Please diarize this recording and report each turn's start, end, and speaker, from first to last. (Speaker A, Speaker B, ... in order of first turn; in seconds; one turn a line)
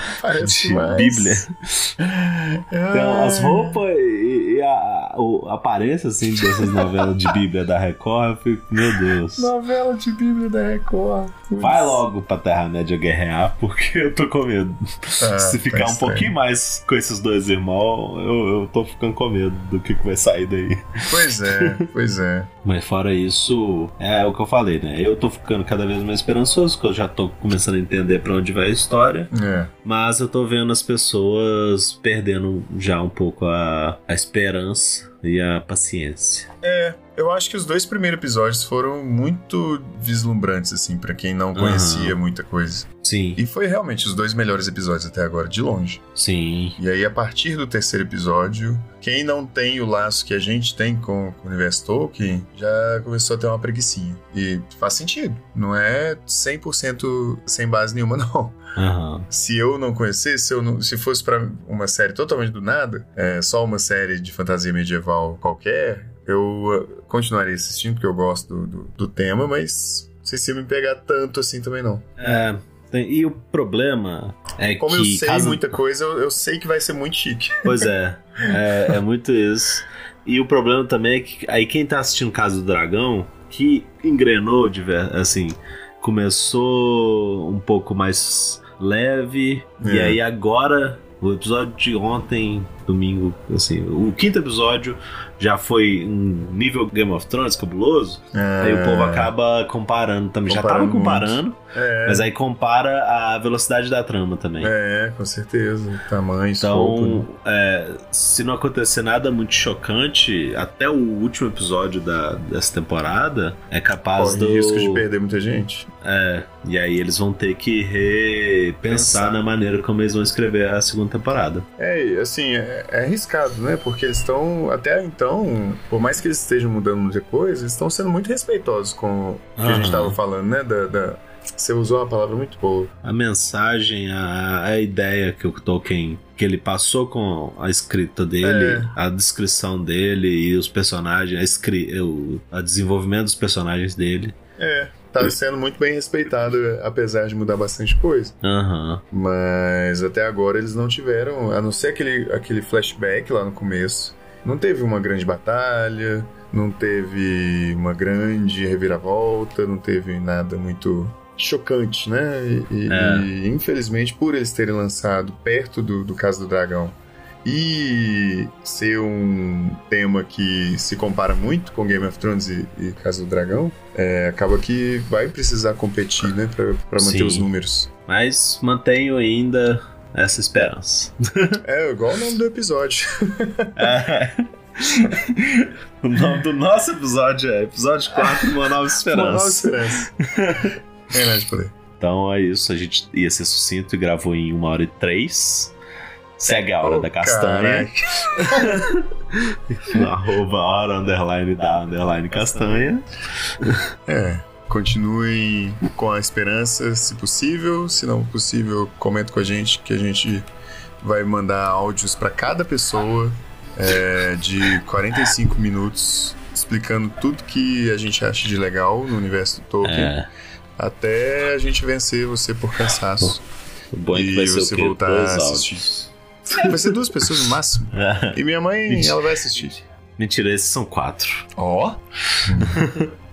Speaker A: 0.2-1.4
Speaker B: 0.4-2.0
Speaker A: 2.0-3.8
Speaker B: 2.9-9.5
Speaker A: 6.6-7.0
Speaker A: 9.3-12.0
Speaker B: 11.6-21.8
Speaker A: 15.2-16.4
Speaker A: 21.1-22.5
Speaker B: 22.6-29.3
Speaker A: 29.3-29.7
Speaker B: 29.9-36.5
Speaker A: 36.6-46.0
Speaker B: 41.5-42.2
Speaker B: 43.0-43.4
Speaker B: 46.1-46.8
Speaker A: 46.8-58.6
Speaker B: 58.8-59.3
Speaker A: 59.3-72.1
Speaker B: 72.2-75.7
Speaker A: 74.8-77.9
Speaker B: 77.7-104.7
Speaker A: 78.5-78.9
Speaker A: 89.8-90.2
Speaker A: 98.3-99.3
Speaker A: 100.5-102.3
Speaker A: 104.6-107.3
Speaker B: 106.6-115.1
Speaker A: 114.2-115.9
Speaker B: 116.0-121.7
Speaker A: 118.9-119.3
Speaker A: 121.8-132.9
Speaker B: 129.6-130.2
Speaker B: 133.0-144.3
Speaker A: 138.4-139.0
Speaker A: 144.6-148.4
Speaker B: 148.4-149.0
Speaker A: 149.1-177.9
Speaker B: 162.9-163.3
Speaker B: 177.0-177.5
Speaker B: 178.1-181.6
Speaker A: 181.6-183.9
Speaker B: 183.8-190.8
Speaker A: 188.3-190.1
Speaker A: 191.1-191.7
Speaker B: 192.0-195.7
Speaker B: 196.4-203.1
Speaker A: 196.8-198.9
Speaker B: 203.6-203.8
Speaker A: 204.1-210.5
Speaker A: 211.0-220.2
Speaker B: 219.8-220.3
Speaker A: 220.8-223.4
Speaker B: 223.9-229.4
Speaker A: 224.1-225.9
Speaker A: 226.5-229.8
Speaker B: 230.2-231.5
Speaker A: 231.6-232.9
Speaker B: 232.3-233.1